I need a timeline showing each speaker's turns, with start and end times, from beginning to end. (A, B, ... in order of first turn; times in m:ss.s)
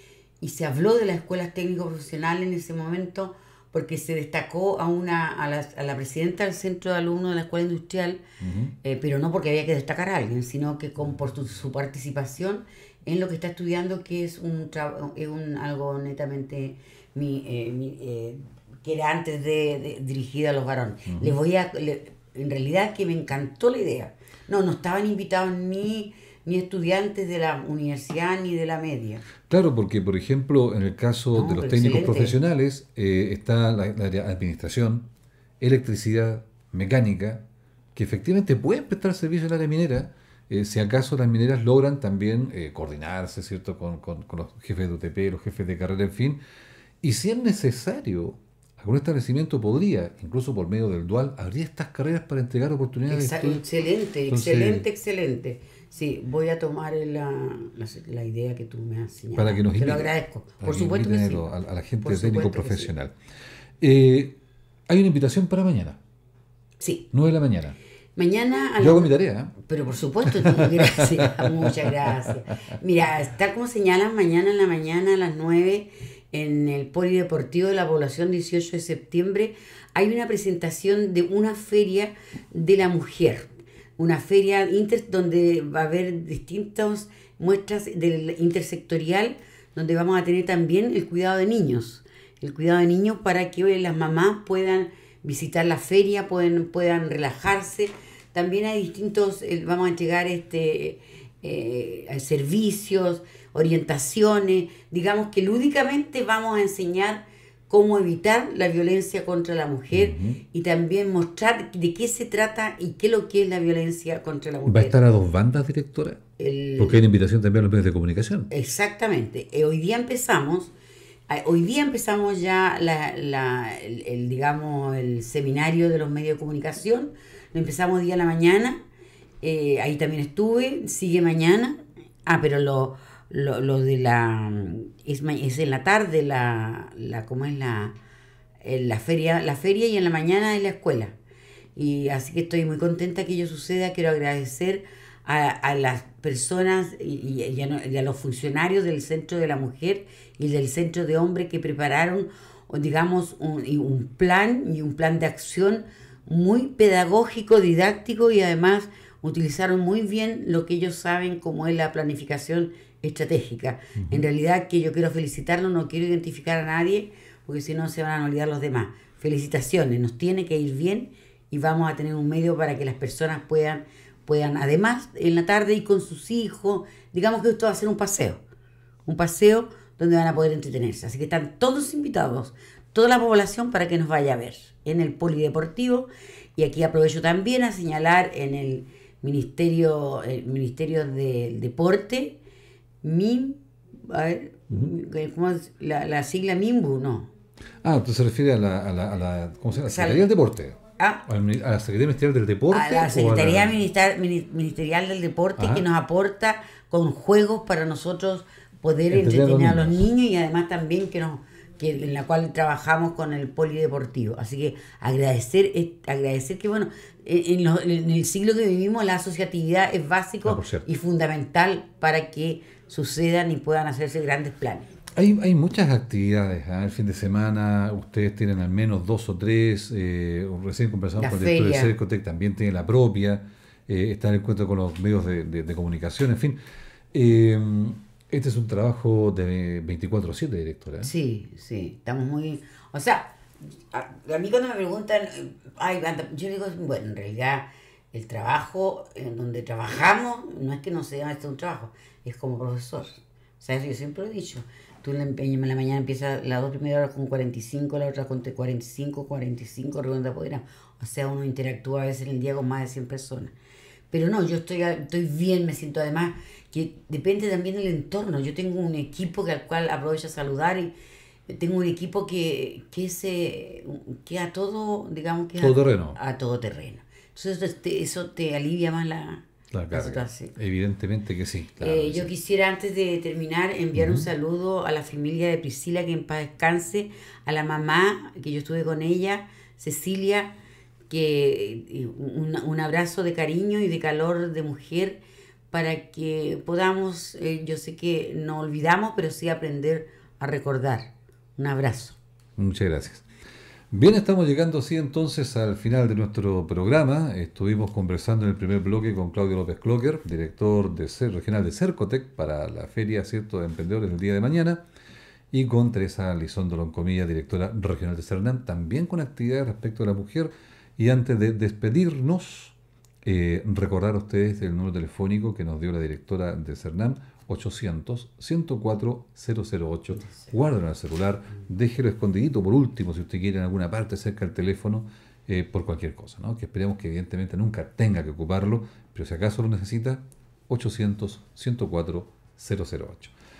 0:00.4-0:08.2 A
0:08.4-0:08.7 B
0:08.8-0:29.2 A
0:21.1-0:21.3 B
0:29.5-0:35.1 B
0:31.3-0:32.3 A
0:35.6-0:37.4 B
0:37.9-0:46.4 B
0:47.0-0:53.6 B
0:53.1-1:01.5 A
0:54.3-0:54.8 B
0:59.3-1:03.1 B
1:02.0-1:02.9 A
1:03.8-1:04.3 B
1:04.9-1:06.0 B
1:06.8-1:07.1 A
1:07.1-1:07.8 B
1:08.2-1:55.0 A
1:08.8-1:09.6 B
1:10.2-1:12.3 B
1:49.9-1:50.4 B
1:54.6-1:56.2 B
1:56.4-1:57.0 A
1:56.8-1:58.5 B
1:58.5-2:00.7 A
2:01.3-2:08.8 A
2:09.4-2:17.9 A
2:18.6-2:21.1 A
2:21.8-2:58.4 A
2:44.0-2:44.2 B
2:59.0-3:12.4 A
3:13.0-3:17.3 A
3:17.8-3:23.8 B
3:19.7-3:20.3 A
3:21.0-3:21.2 A
3:22.7-3:44.9 A
3:25.6-3:25.8 B
3:29.1-3:30.0 B
3:40.4-3:40.8 B
3:45.1-3:56.6 B
3:51.2-3:51.9 A
3:57.1-4:01.1 B
4:01.0-4:03.3 A
4:03.9-4:23.5 A
4:24.1-4:30.9 A
4:31.5-4:40.5 A
4:35.6-4:36.2 B
4:39.7-4:42.3 B
4:41.8-4:50.5 A
4:44.0-4:44.3 B
4:51.1-4:55.2 A
4:55.7-5:02.2 A
5:02.6-5:03.2 B
5:03.9-5:14.8 B
5:15.5-5:43.3 B